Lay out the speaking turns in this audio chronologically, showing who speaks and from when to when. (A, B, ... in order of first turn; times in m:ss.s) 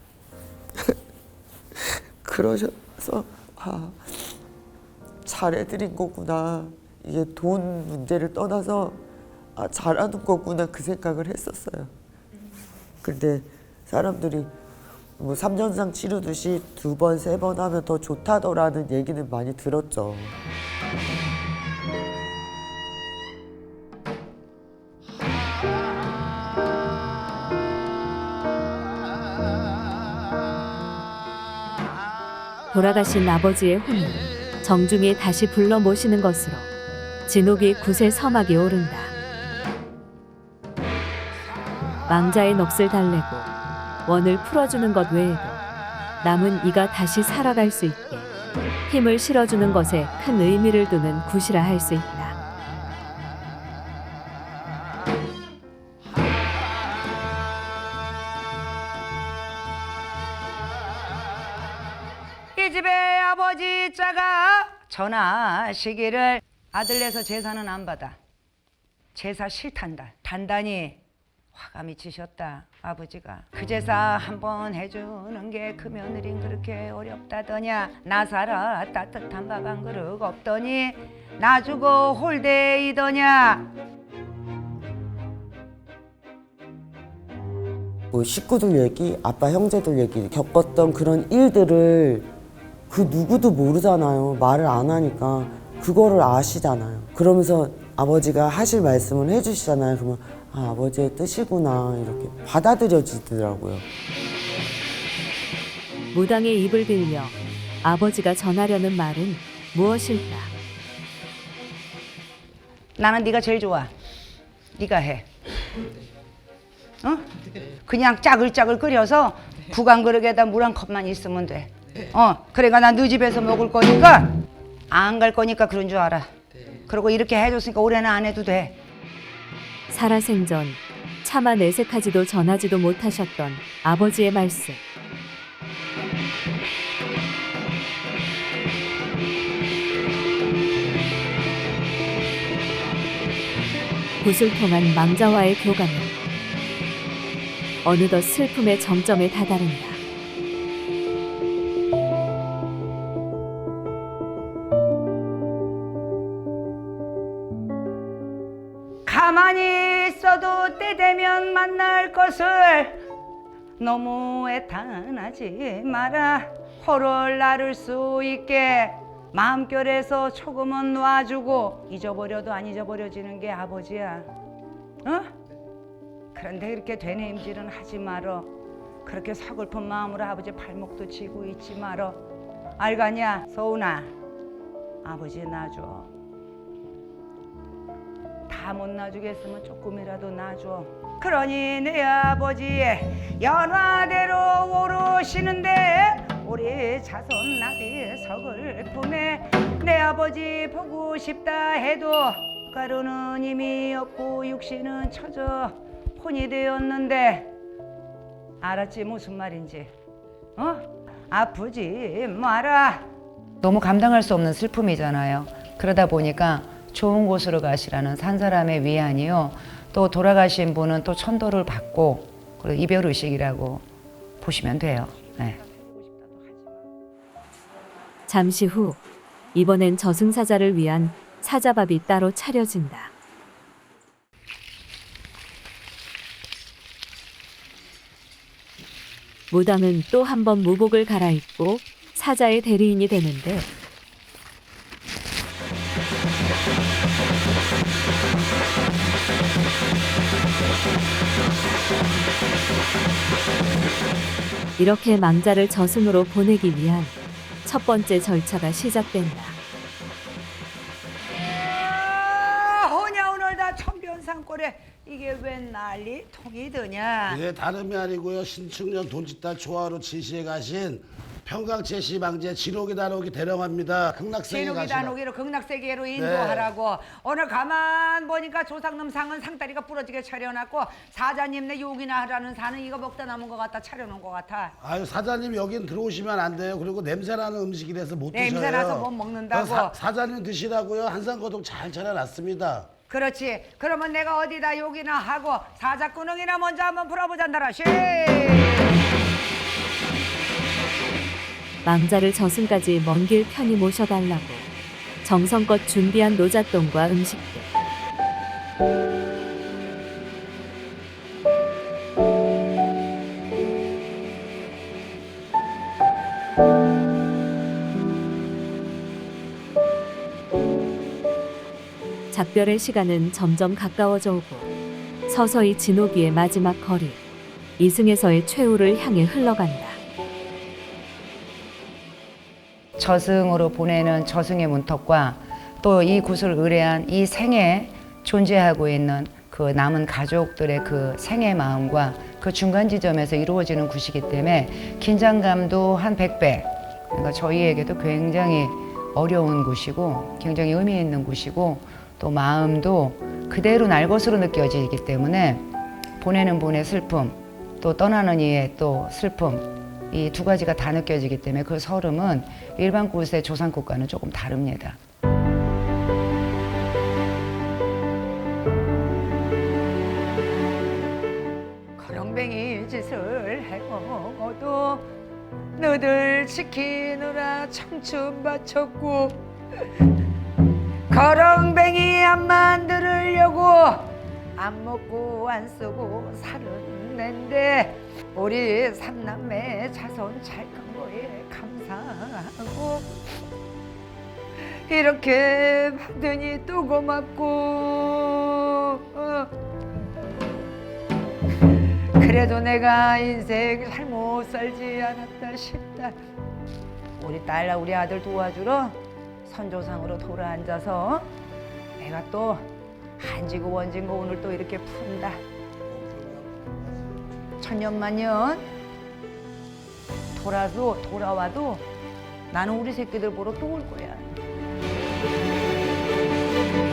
0:01.8-0:04.4 A
0:05.2-0:09.0 A
0:09.6-0:11.9 A
0:13.0-0:14.5 A
0:15.2-0:20.4 A
0:32.7-0:36.7 B
0:37.3-0:39.1 B
0:42.1-0:43.5 B
0:44.1-0:45.6 B
0:46.2-0:48.3 B
0:48.9-0:52.4 B
1:02.6-1:08.2 C
1:09.2-1:11.0 C
1:11.5-1:23.7 C
1:28.1-1:32.3 A
1:32.9-1:43.8 A
1:46.1-1:50.5 B
1:53.0-1:53.9 C
1:54.8-1:55.3 C
1:57.9-2:04.3 C
2:04.9-2:06.3 C
2:06.9-2:08.8 C
2:09.9-2:14.8 B
2:24.2-2:26.1 B
2:27.8-2:30.0 B
2:39.1-2:43.0 C
2:43.8-2:54.3 C
2:55.0-2:55.3 C
2:56.4-2:58.5 C
2:59.0-3:02.2 C
3:02.8-3:04.1 C
3:05.0-3:06.1 C
3:08.5-3:27.5 C
3:28.6-3:29.9 C
3:30.6-3:33.0 C
3:33.6-3:43.8 C
3:44.4-3:45.7 C
3:48.3-3:49.0 B
3:49.5-3:53.1 B
3:59.5-4:03.7 B
4:14.8-4:19.6 B
4:21.5-4:27.4 C
4:27.3-4:35.2 D
4:34.4-4:44.8 C
4:36.2-4:36.7 D
4:44.8-4:52.9 D
4:48.3-4:50.0 C
4:53.1-4:59.0 C
5:01.8-5:04.7 B
5:05.2-5:07.7 B
5:22.3-5:24.7 B
5:25.3-5:27.2 B
5:27.8-5:30.0 B
5:33.0-5:55.6 C
5:56.2-6:05.0 C
6:12.0-6:15.1 C
6:15.8-6:19.4 C
6:21.1-6:33.1 C
6:34.9-6:39.5 C
6:42.2-6:46.2 C
6:47.2-6:51.3 C
6:52.0-6:52.7 C
6:53.2-6:55.4 C
6:57.6-6:58.7 C
7:00.4-7:01.8 C
7:02.5-7:04.3 C